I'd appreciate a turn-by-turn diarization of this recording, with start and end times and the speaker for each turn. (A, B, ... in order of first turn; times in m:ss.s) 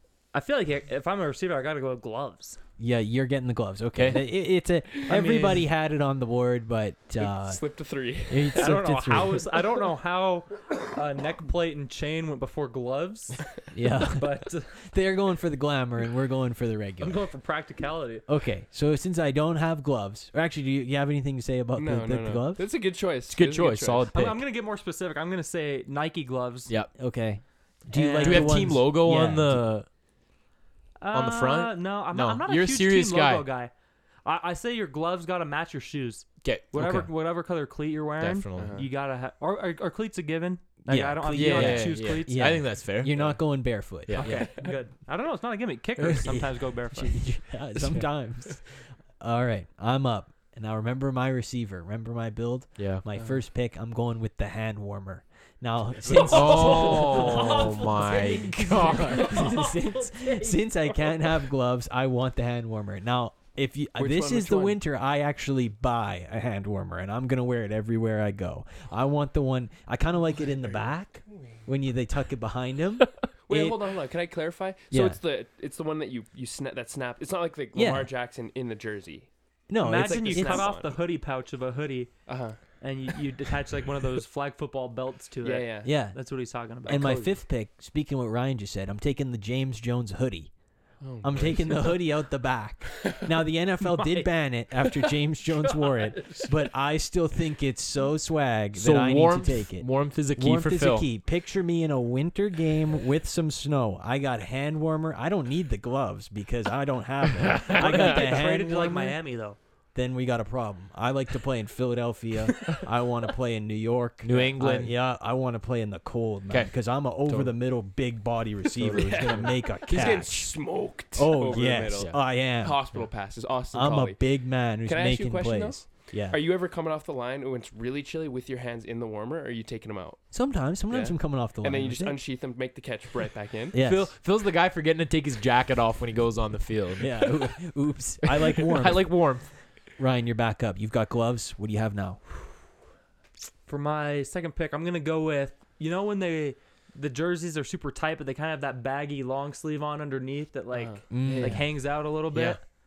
0:00.3-0:02.6 A
0:02.8-0:07.6 B
0:03.9-0:04.2 C
0:05.1-0:05.6 A
0:07.2-0:08.6 D
0:08.2-0:09.5 B
0:08.5-0:13.4 A
0:13.7-0:17.2 B
0:14.1-0:14.7 A
0:17.0-0:18.2 A
0:18.3-0:22.6 B
0:21.7-0:24.1 D
0:23.3-0:24.4 C
0:24.1-0:26.7 A
0:26.9-0:29.7 B
0:27.9-0:28.6 A
0:28.2-0:29.9 C
0:31.0-0:33.7 A
0:31.1-0:33.5 C
0:34.2-0:42.4 A
0:36.4-0:36.7 C
0:36.7-0:37.1 B
0:38.2-0:38.8 C
0:38.6-0:38.9 D
0:40.8-0:44.5 B
0:41.3-0:43.4 C
0:44.1-0:44.4 C
0:44.2-0:47.2 A
0:46.2-1:13.8 B
0:52.8-0:53.0 C
0:56.2-0:57.8 A
0:56.2-0:59.4 C
0:58.8-1:00.6 A
1:04.0-1:04.8 D
1:13.5-1:19.3 D
1:14.9-1:15.2 B
1:17.7-1:18.1 B
1:19.7-1:20.7 B
1:19.8-1:22.1 A
1:20.0-1:21.0 D
1:22.3-1:22.6 D
1:22.8-1:27.2 A
1:25.4-1:25.9 D
1:25.8-1:30.5 B
1:26.8-1:27.4 D
1:31.0-1:32.0 D
1:31.2-1:49.2 B
1:33.9-1:34.3 A
1:35.8-1:36.5 A
1:38.8-1:41.1 C
1:47.4-1:48.0 C
1:47.7-1:49.6 A
1:49.9-2:03.0 B
1:54.2-1:54.9 C
1:56.5-1:57.5 C
1:58.8-1:59.5 C
1:58.8-2:04.2 D
2:03.7-2:06.4 B
2:04.8-2:10.2 D
2:10.3-2:12.2 B
2:10.9-2:13.8 D
2:13.7-2:14.1 B
2:13.7-2:17.4 C
2:17.0-2:19.3 B
2:18.2-2:19.5 C
2:20.0-2:22.2 B
2:23.7-2:32.6 A
2:30.7-2:31.6 D
2:31.1-2:31.6 B
2:32.3-2:32.6 C